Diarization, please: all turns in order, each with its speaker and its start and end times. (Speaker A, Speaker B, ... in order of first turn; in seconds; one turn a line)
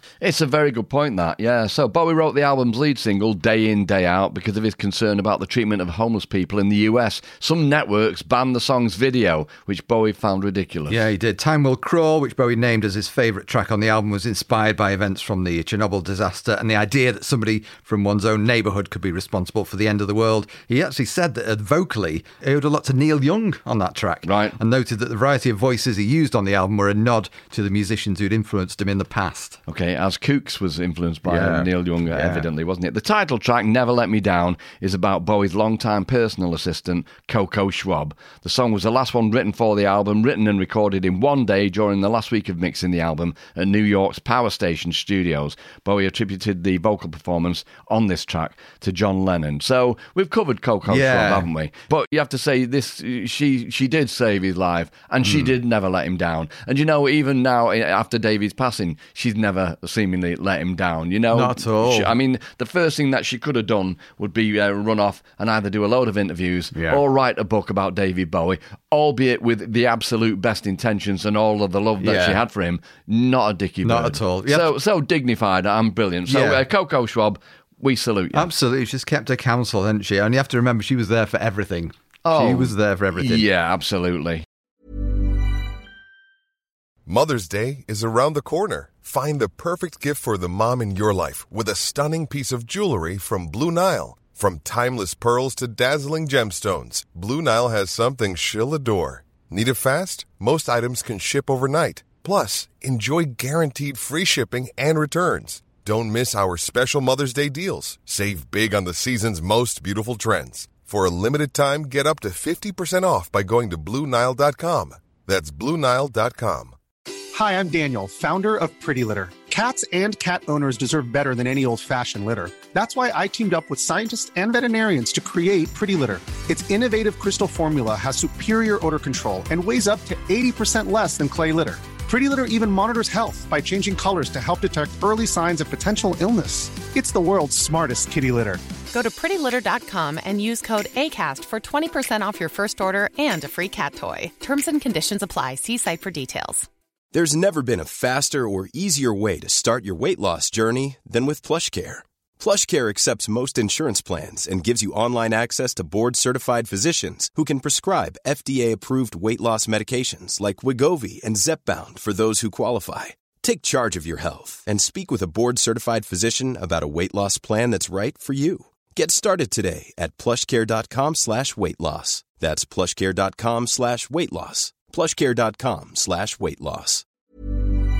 Speaker A: 0.2-11.0
Speaker B: 10.9-29.6
Speaker A: 24.2-24.6
Speaker A: 29.7-78.5
Speaker B: 31.2-32.4
Speaker B: 50.9-51.5
Speaker B: 55.2-55.5
Speaker B: 61.3-62.1
Speaker B: 66.7-67.0
Speaker B: 72.0-72.4
Speaker B: 73.8-74.7
Speaker B: 76.3-76.6
Speaker B: 78.3-83.5
Speaker A: 82.2-84.4
Speaker C: 87.1-116.8
Speaker D: 117.3-138.6
Speaker E: 138.9-146.7
Speaker F: 147.1-177.0